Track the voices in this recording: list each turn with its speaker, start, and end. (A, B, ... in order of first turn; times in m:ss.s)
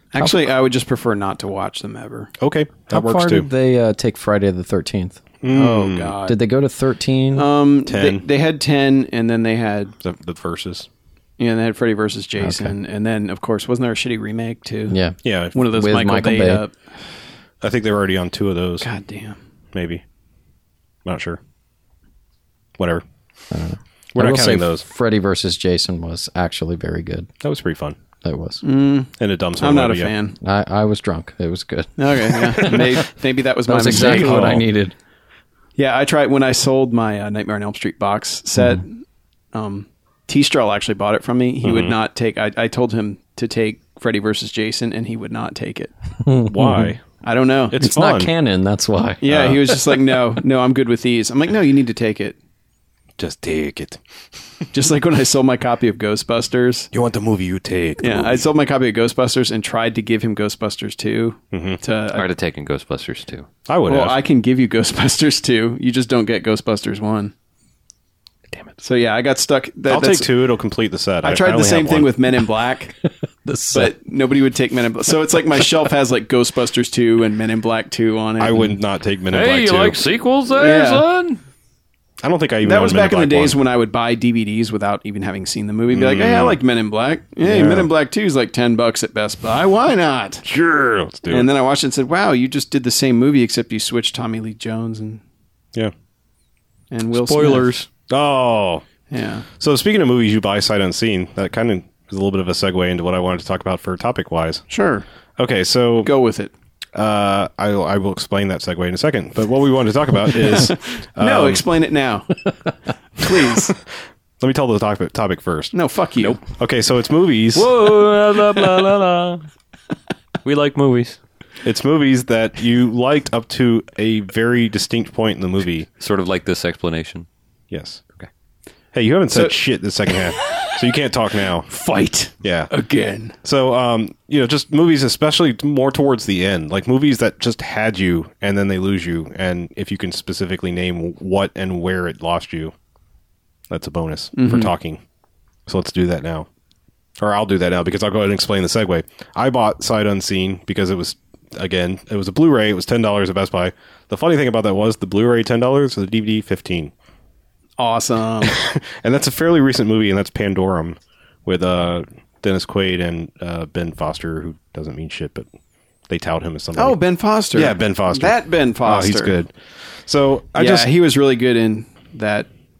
0:00.1-0:02.3 A
0:02.4-0:03.5 B
0:02.9-0:05.2 C
0:05.4-0:06.2 B
0:05.5-0:06.4 A
0:06.3-0:07.5 C
0:07.3-0:09.9 A
0:07.8-0:08.2 B
0:10.0-0:10.9 B
0:11.4-0:15.0 A
0:12.4-0:12.7 C
0:14.9-0:16.6 C
0:15.2-0:15.6 B
0:15.5-0:16.9 A
0:17.6-0:18.9 B
0:18.8-0:19.4 A
0:19.7-0:20.0 B
0:21.0-0:21.4 B
0:22.8-0:23.0 B
0:23.5-0:27.3 C
0:24.1-0:24.8 B
0:27.4-0:28.0 B
0:28.2-0:28.6 C
0:28.6-0:30.4 A
0:29.2-0:30.1 B
0:30.4-0:32.9 C
0:32.0-0:34.6 A
0:32.6-0:32.9 B
0:33.7-0:35.0 C
0:33.9-0:34.6 B
0:35.8-0:39.0 A
0:39.5-0:45.9 A
0:41.6-0:42.0 B
0:46.2-0:46.9 C
0:46.5-0:47.0 B
0:47.2-0:47.8 A
0:47.7-0:48.3 B
0:47.8-0:49.7 C
0:49.2-0:52.4 A
0:49.3-0:49.6 B
0:53.2-0:54.0 B
0:54.7-0:56.9 A
0:56.9-0:58.5 B
0:58.0-1:02.2 A
1:01.5-1:01.8 B
1:02.1-1:03.5 D
1:03.7-1:04.2 B
1:03.9-1:07.3 A
1:08.8-1:10.3 A
1:09.9-1:12.2 B
1:11.2-1:13.0 A
1:13.4-1:13.9 C
1:13.7-1:18.7 A
1:18.4-1:20.0 B
1:19.3-1:21.4 D
1:20.5-1:21.0 A
1:22.2-1:23.6 B
1:22.6-1:30.4 A
1:25.9-1:26.6 B
1:27.4-1:27.9 B
1:30.4-1:31.5 B
1:31.3-1:35.2 A
1:36.9-1:37.7 A
1:37.1-1:37.9 D
1:38.1-1:38.8 B
1:39.1-1:39.5 A
1:39.6-1:44.7 B
1:44.7-1:45.1 A
1:45.4-1:46.1 B
1:46.0-1:46.5 A
1:47.0-1:51.6 B
1:51.2-1:52.5 A
1:53.2-1:53.8 A
1:53.3-1:53.8 B
1:54.4-1:55.7 B
1:55.7-1:56.4 A
1:56.5-1:57.7 B
1:57.5-1:59.4 D
2:00.4-2:01.2 D
2:01.6-2:05.9 B
2:06.0-2:07.3 D
2:07.7-2:08.0 B
2:08.9-2:11.7 B
2:11.7-2:13.3 A
2:12.4-2:12.7 B
2:13.4-2:22.7 B
2:23.7-2:25.0 B
2:24.4-2:24.7 A
2:25.7-2:26.5 B
2:27.2-2:36.9 B
2:37.8-2:38.6 A
2:38.4-2:45.5 B
2:46.1-2:47.0 B
2:46.8-2:49.4 A
2:47.5-2:50.9 B
2:50.6-2:52.5 A